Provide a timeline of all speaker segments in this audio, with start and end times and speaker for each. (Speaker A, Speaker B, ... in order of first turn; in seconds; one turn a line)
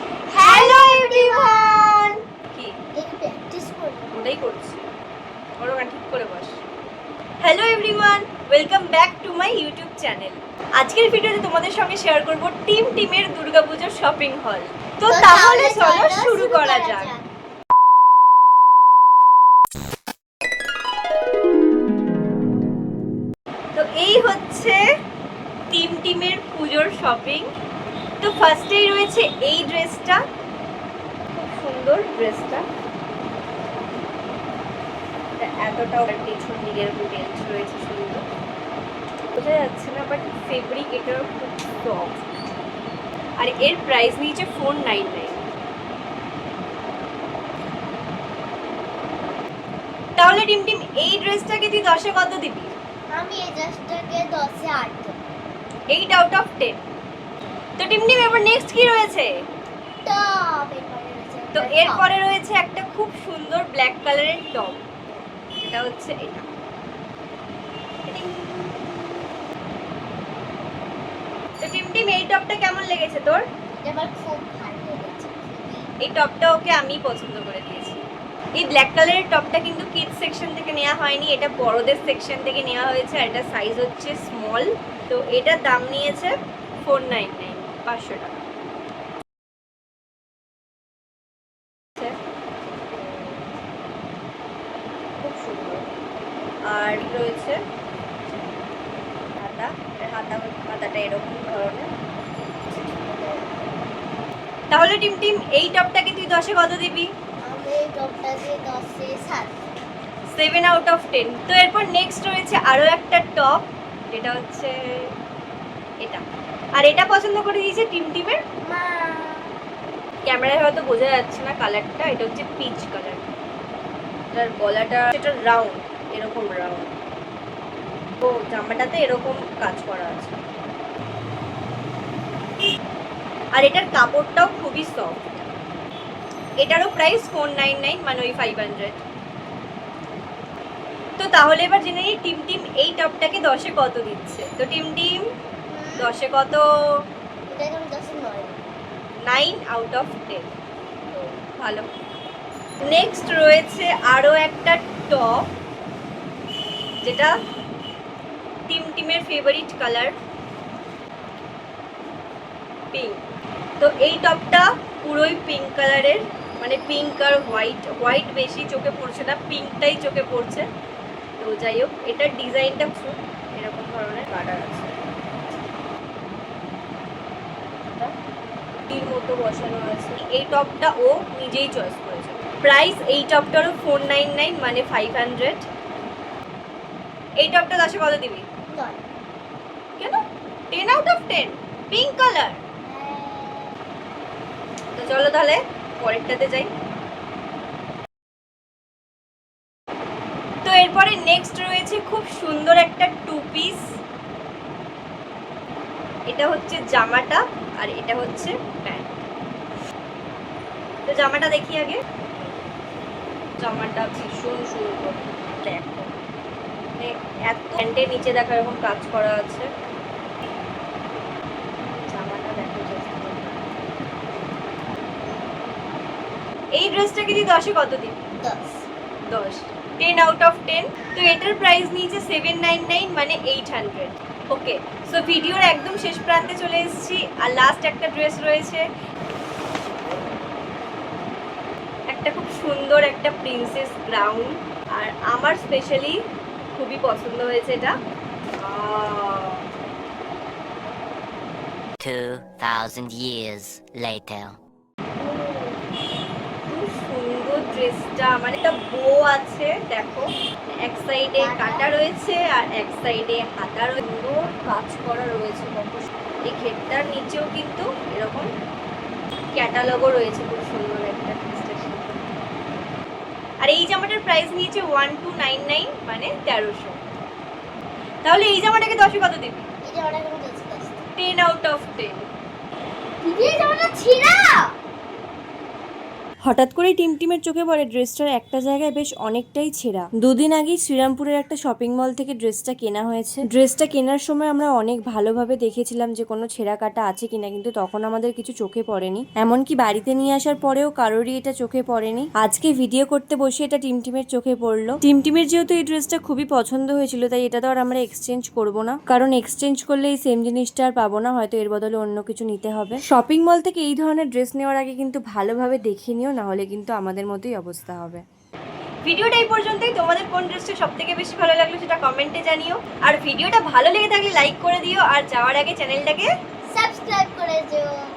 Speaker A: 0.3-1.8
Speaker B: 0.3-2.7
Speaker A: 2.9-4.4
Speaker B: 4.1-4.9
Speaker B: 5.6-6.6
Speaker B: 7.4-17.1
Speaker A: 15.1-17.2
Speaker B: 23.7-24.8
Speaker B: 25.7-27.5
Speaker B: 28.2-30.2
Speaker B: 31.3-32.6
Speaker B: 35.4-38.2
Speaker B: 39.3-42.4
Speaker B: 43.4-45.4
Speaker B: 50.2-52.7
Speaker A: 53.1-55.1
Speaker B: 55.9-56.8
Speaker B: 57.8-59.3
Speaker A: 60.0-62.1
Speaker B: 61.5-64.8
Speaker B: 65.6-66.5
Speaker B: 68.0-68.7
Speaker B: 71.6-73.4
Speaker A: 73.8-75.9
Speaker B: 76.0-78.0
Speaker B: 78.6-88.5
Speaker B: 92.9-93.5
Speaker B: 95.2-95.8
Speaker B: 96.7-97.6
Speaker B: 99.3-101.9
Speaker A: 102.7-103.6
Speaker B: 104.7-107.1
Speaker A: 107.5-109.6
Speaker B: 110.3-115.1
Speaker B: 116.8-118.4
Speaker A: 118.7-119.5
Speaker B: 120.2-123.2
Speaker B: 124.3-126.9
Speaker B: 128.2-130.4
Speaker B: 133.5-135.5
Speaker B: 136.6-139.0
Speaker B: 141.2-145.2
Speaker A: 145.7-146.1
Speaker B: 146.0-146.6
Speaker A: 147.5-148.7
Speaker B: 149.2-150.5
Speaker B: 151.6-151.9
Speaker B: 152.9-155.5
Speaker B: 157.0-157.3
Speaker B: 158.7-160.2
Speaker B: 162.9-163.2
Speaker B: 163.8-170.7
Speaker B: 171.4-175.0
Speaker B: 178.9-185.7
Speaker B: 187.4-188.4
Speaker A: 188.7-189.0
Speaker B: 190.7-192.6
Speaker A: 192.8-193.8
Speaker B: 194.9-196.7
Speaker B: 200.6-203.8
Speaker B: 206.3-209.1
Speaker B: 211.1-212.0
Speaker B: 213.6-216.2
Speaker B: 217.0-219.7
Speaker B: 222.1-223.6
Speaker B: 226.7-228.2
Speaker A: 228.4-228.8
Speaker B: 229.3-238.9
Speaker B: 242.1-246.2
Speaker B: 246.7-247.9
Speaker B: 248.6-249.6
Speaker C: 252.0-254.6
Speaker B: 255.2-255.7
Speaker B: 256.7-260.3
Speaker B: 260.8-268.5
Speaker A: 261.4-261.9
Speaker B: 269.5-272.2
Speaker B: 273.6-277.0
Speaker B: 278.2-279.7
Speaker A: 279.8-281.1
Speaker B: 281.1-282.3
Speaker A: 283.2-284.7
Speaker B: 286.4-318.2
Speaker B: 319.0-326.3
Speaker A: 326.7-327.9